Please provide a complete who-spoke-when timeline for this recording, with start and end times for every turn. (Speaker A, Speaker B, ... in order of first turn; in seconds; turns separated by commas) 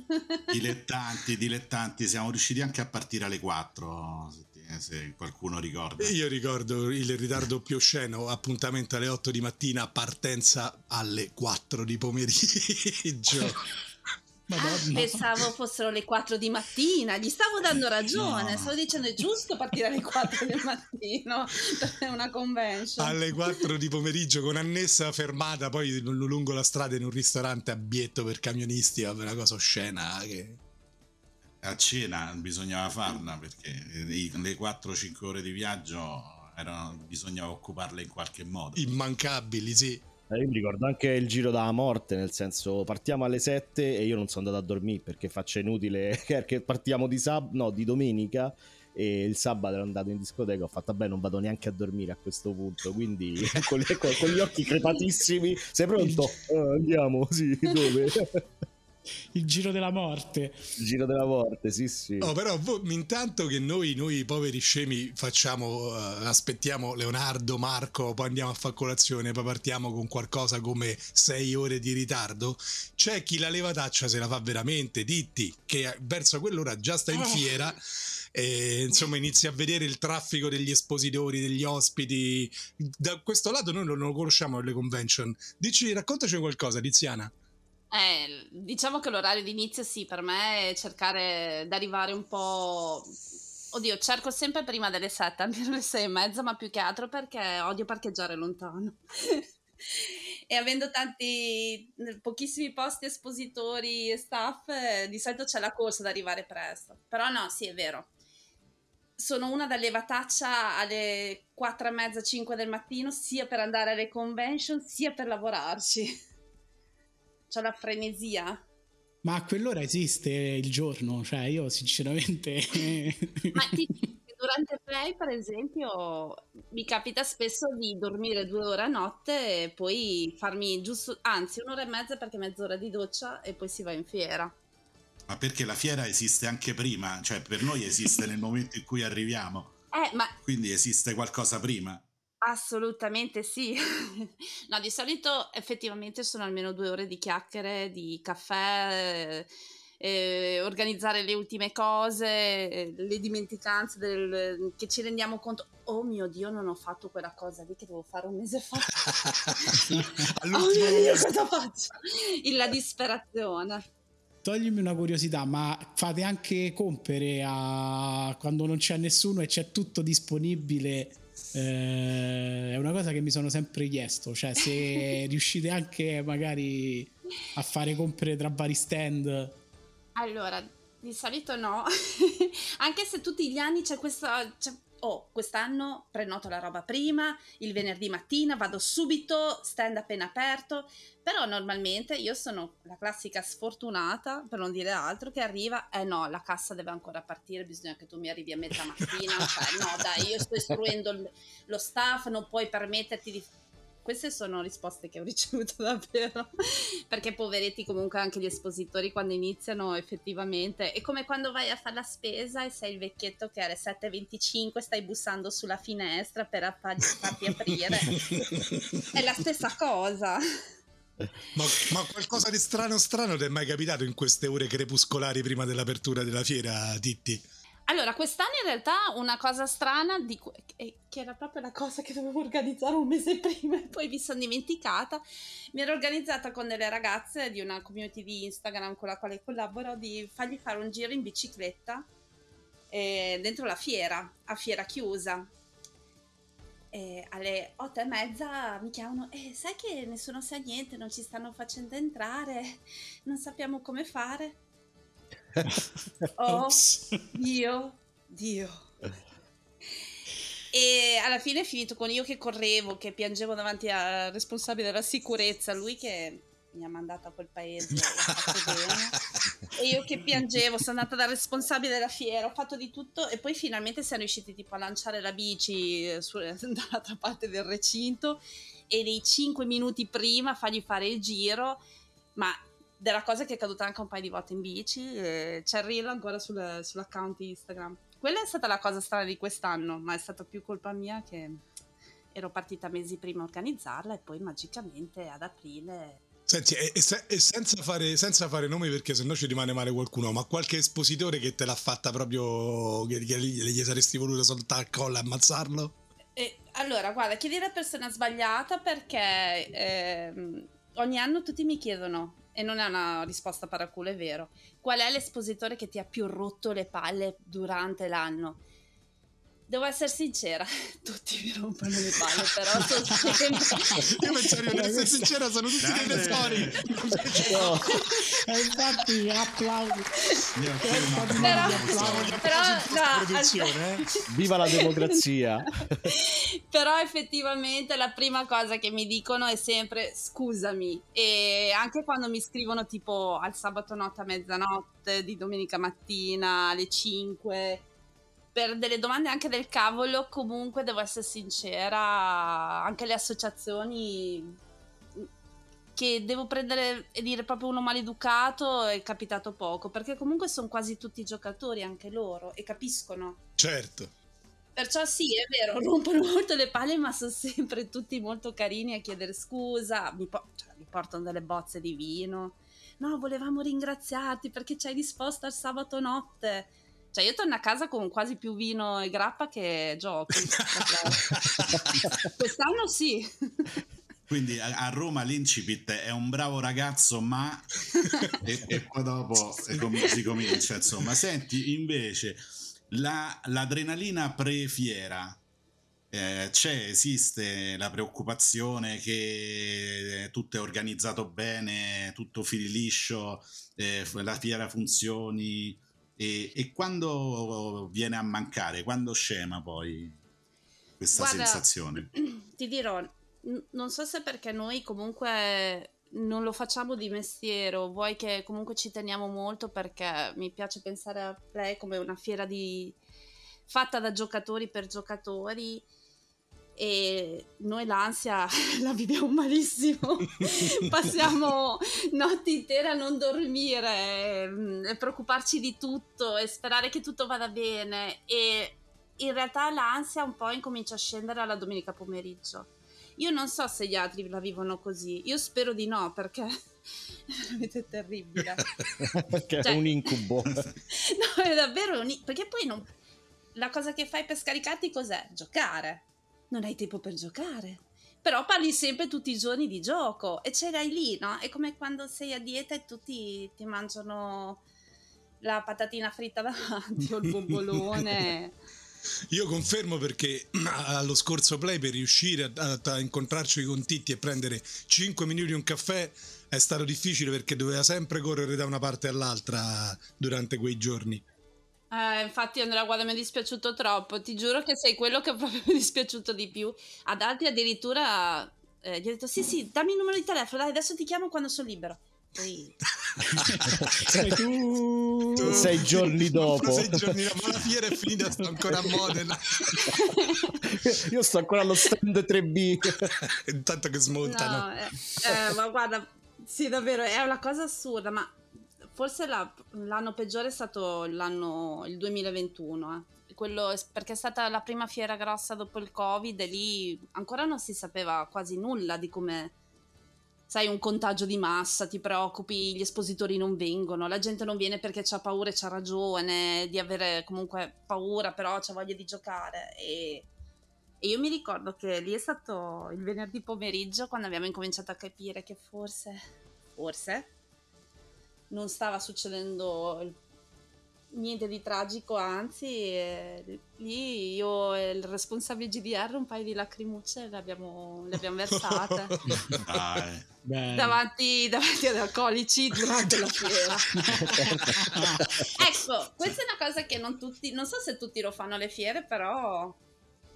Speaker A: 0.1-0.4, Speaker B: 0.5-6.2, Speaker C: 6.0-13.7, Speaker D: 14.5-15.3, Speaker A: 14.6-23.6, Speaker B: 18.1-18.7, Speaker C: 23.0-30.6, Speaker B: 31.6-38.9, Speaker C: 38.8-40.0, Speaker E: 40.3-58.4, Speaker D: 59.3-60.6, Speaker E: 60.8-62.3, Speaker C: 62.2-77.8, Speaker C: 78.3-87.3, Speaker A: 87.9-93.2, Speaker A: 93.7-108.1, Speaker A: 109.2-116.2, Speaker A: 117.5-118.6, Speaker D: 119.2-123.9, Speaker A: 123.5-134.5, Speaker B: 135.3-139.7, Speaker A: 139.9-140.3, Speaker B: 140.4-142.1, Speaker A: 142.4-149.5, Speaker A: 150.0-163.8, Speaker C: 159.0-161.3, Speaker D: 159.9-160.2, Speaker D: 164.4-179.6, Speaker A: 180.2-203.5, Speaker A: 204.0-218.4, Speaker C: 217.7-219.1, Speaker A: 219.1-220.5, Speaker C: 221.5-227.4, Speaker A: 227.9-235.2, Speaker A: 235.7-242.1, Speaker A: 242.9-245.5, Speaker A: 246.9-254.6, Speaker D: 255.6-255.9, Speaker A: 256.4-258.9, Speaker D: 256.5-257.2, Speaker A: 260.7-269.2, Speaker C: 268.1-268.8, Speaker A: 269.7-281.8, Speaker A: 282.4-291.6, Speaker A: 292.3-296.2, Speaker C: 296.5-306.0, Speaker A: 306.4-318.6, Speaker A: 319.7-324.2, Speaker D: 323.1-325.4, Speaker C: 324.1-327.9, Speaker B: 325.8-326.9, Speaker D: 325.9-326.4, Speaker A: 327.5-328.3, Speaker E: 327.5-327.9, Speaker D: 328.3-332.6, Speaker B: 330.6-332.4, Speaker A: 331.4-335.2, Speaker C: 331.9-334.1, Speaker E: 334.3-336.1, Speaker A: 336.0-347.9, Speaker A: 348.6-354.6, Speaker A: 356.0-363.4, Speaker C: 363.6-364.1, Speaker A: 364.8-381.4, Speaker C: 381.1-382.1, Speaker A: 381.9-383.7, Speaker B: 384.3-395.4, Speaker B: 396.1-410.2, Speaker B: 411.0-412.1, Speaker A: 411.1-423.0, Speaker A: 423.7-425.9, Speaker A: 426.8-446.5, Speaker A: 447.3-448.7, Speaker E: 449.1-450.7, Speaker A: 449.6-450.1, Speaker A: 450.9-452.9, Speaker A: 453.6-464.6, Speaker A: 465.4-468.6, Speaker C: 469.3-481.2, Speaker A: 481.9-492.8, Speaker C: 493.2-494.1, Speaker D: 493.3-496.2, Speaker C: 495.4-500.0, Speaker E: 495.4-497.2, Speaker A: 499.7-500.6, Speaker E: 500.7-503.1, Speaker C: 503.0-504.7, Speaker A: 504.2-519.5, Speaker A: 520.5-530.3, Speaker A: 531.0-536.2, Speaker A: 536.8-537.3, Speaker A: 538.5-540.2, Speaker A: 541.1-549.2, Speaker C: 548.6-550.0, Speaker B: 549.5-550.3, Speaker D: 550.4-551.0, Speaker A: 550.7-554.4, Speaker C: 552.8-555.4, Speaker D: 554.0-555.5, Speaker E: 554.2-554.5, Speaker A: 555.5-559.8